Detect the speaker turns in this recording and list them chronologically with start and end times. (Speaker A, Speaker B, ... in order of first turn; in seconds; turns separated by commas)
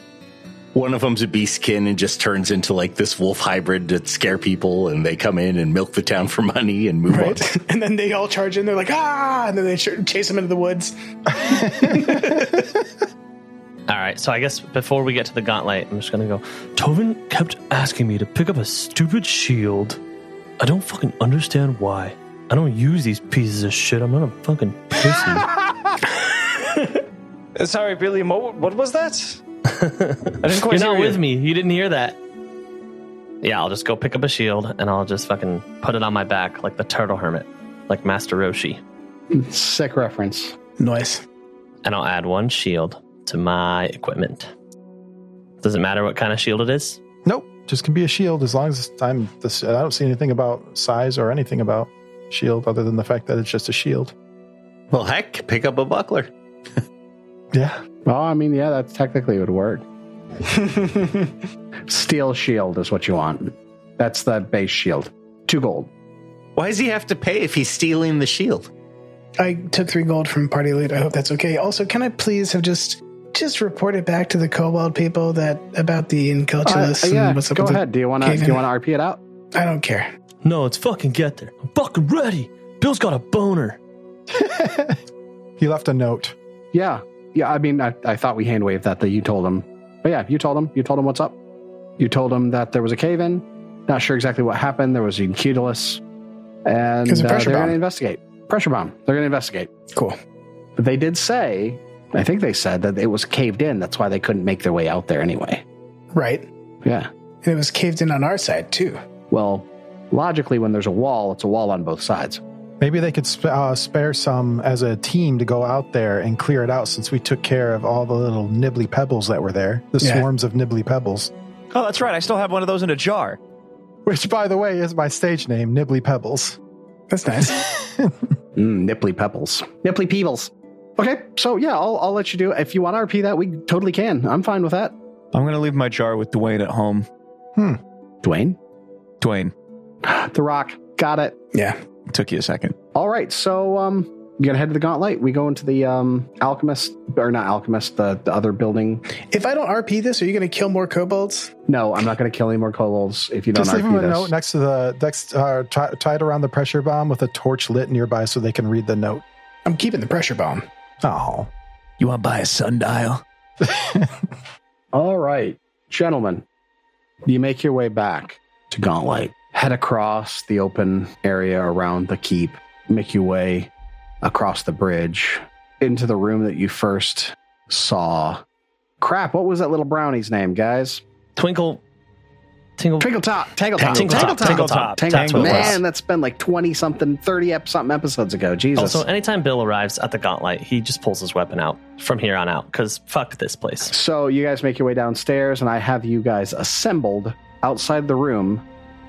Speaker A: 0.7-7.4, Speaker B: 7.1-12.5, Speaker C: 11.5-12.4, Speaker D: 13.9-20.0, Speaker D: 20.6-25.5, Speaker E: 27.6-29.4, Speaker D: 29.7-32.2, Speaker E: 30.4-31.2, Speaker D: 33.4-38.8, Speaker F: 39.3-40.6, Speaker B: 40.8-41.2, Speaker D: 41.8-44.5, Speaker D: 45.6-47.0, Speaker C: 47.2-54.1, Speaker A: 54.9-56.3, Speaker C: 57.5-57.8, Speaker F: 58.0-59.8, Speaker F: 61.9-65.9, Speaker A: 66.6-68.7, Speaker B: 69.4-78.6, Speaker F: 76.7-79.2, Speaker B: 79.5-80.1, Speaker D: 80.4-83.8, Speaker C: 84.3-85.0, Speaker C: 85.6-86.3, Speaker F: 86.7-91.4, Speaker F: 92.0-96.0, Speaker F: 96.7-99.7, Speaker B: 97.1-97.8, Speaker B: 99.9-100.2, Speaker F: 100.8-105.6, Speaker B: 106.1-106.5, Speaker F: 106.8-107.1, Speaker B: 107.4-109.0, Speaker F: 109.3-112.4, Speaker C: 112.8-121.3, Speaker B: 120.0-120.3, Speaker G: 121.7-123.4, Speaker C: 124.1-126.6, Speaker B: 127.1-127.6, Speaker C: 127.8-128.1, Speaker F: 128.6-134.9, Speaker G: 135.3-137.1, Speaker F: 138.2-138.6, Speaker G: 139.2-139.5, Speaker F: 140.0-141.4, Speaker G: 142.1-142.8, Speaker F: 142.9-149.1, Speaker B: 149.3-151.5, Speaker F: 151.7-154.3, Speaker C: 153.6-159.2, Speaker B: 159.7-160.7, Speaker C: 161.0-161.5, Speaker G: 162.0-163.2, Speaker C: 163.7-164.1, Speaker F: 164.9-166.4, Speaker F: 167.2-173.7, Speaker F: 174.2-178.4, Speaker F: 179.0-181.0, Speaker D: 181.4-181.8, Speaker D: 182.8-183.1, Speaker F: 183.0-189.1, Speaker G: 183.8-185.8, Speaker D: 183.8-185.8, Speaker D: 188.8-193.9, Speaker F: 193.9-198.6